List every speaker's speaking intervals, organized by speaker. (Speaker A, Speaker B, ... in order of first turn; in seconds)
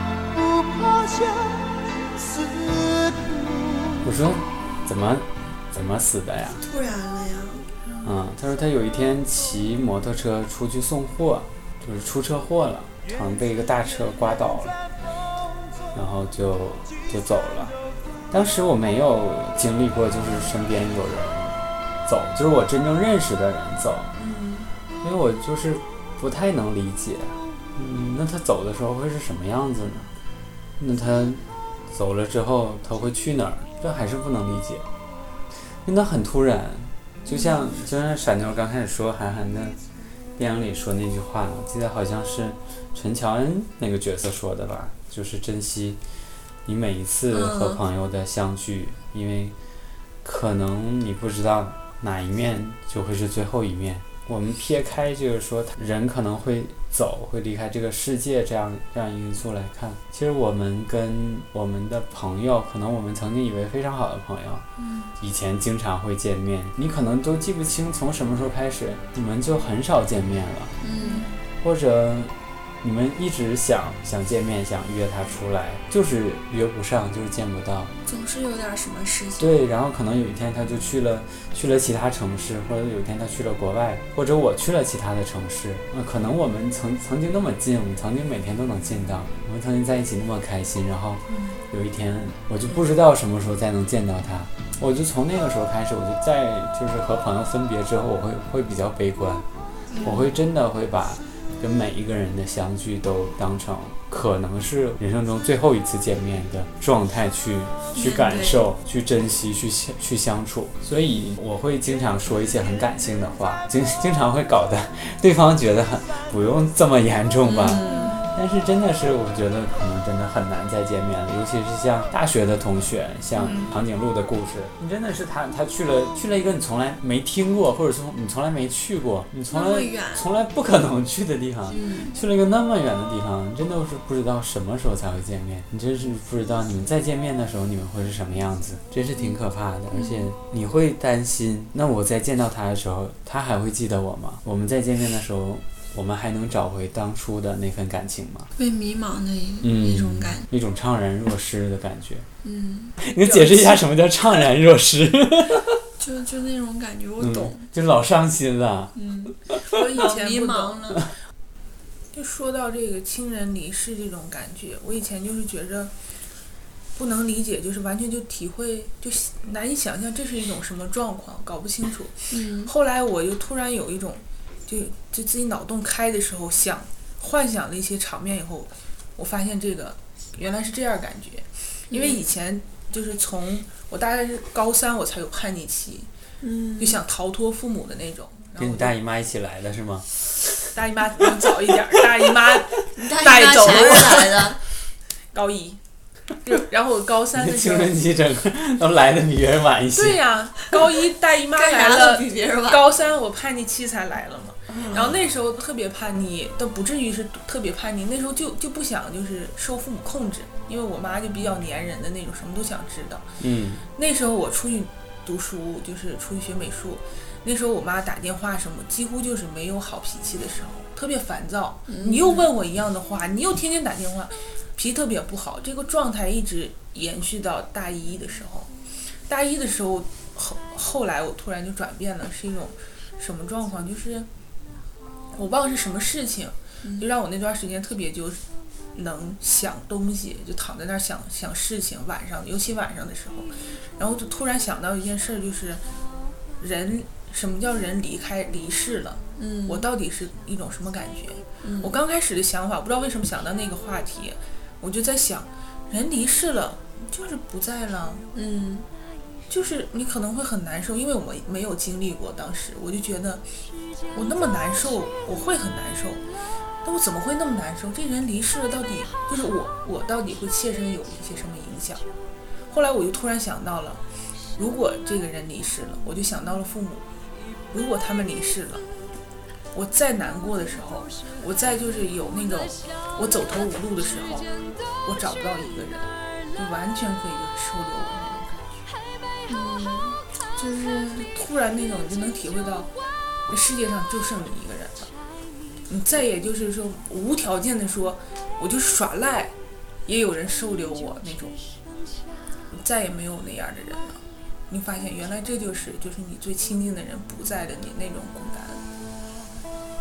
Speaker A: 0.3-4.2
Speaker B: 4.0-6.6, 8.0-14.7, 15.9-17.7, 18.3-24.1, 25.0-30.1, 30.8-34.8, 35.8-39.8, 40.4-46.0, 46.6-49.5, 50.2-64.6, 65.2-70.7, 71.6-77.9, 79.4-99.4, 100.0-148.5, 149.6-152.3, 153.0-155.8, 157.2-159.0, 188.6-190.1, 197.4-200.2, 213.4-213.8
Speaker C: 6.6-7.7, 24.1-24.7, 47.3-47.8, 64.8-65.1, 70.8-71.3, 78.0-79.5, 107.9-108.7, 117.4-118.2, 129.5-130.3, 131.7-132.1, 139.9-140.3, 148.6-150.4, 152.4-152.9, 156.0-157.7, 158.9-161.0, 172.3-172.7, 181.9-182.2, 186.4-187.0, 193.0-194.6, 201.5-202.8, 221.9-222.5, 249.4-249.8, 251.6-251.9, 258.3-258.9, 289.5-291.3
Speaker D: 71.0-71.4, 91.3-91.6, 99.9-100.2, 117.8-118.3, 123.4-123.7, 153.1-153.8, 159.7-160.8, 162.1-165.9, 166.9-186.1, 186.8-188.9, 190.7-194.4, 195.3-195.8, 196.4-197.9, 199.9-213.2, 213.9-228.7, 229.3-234.3, 235.3-238.4, 238.9-245.8, 246.6-258.2, 259.5-263.4, 264.1-266.2, 266.8-272.0, 272.7-274.0, 274.6-277.1, 277.7-278.9, 279.7-284.5, 285.0-288.8, 291.2-292.9, 293.5-295.1, 295.9-299.5, 300.1-301.6, 302.7-308.8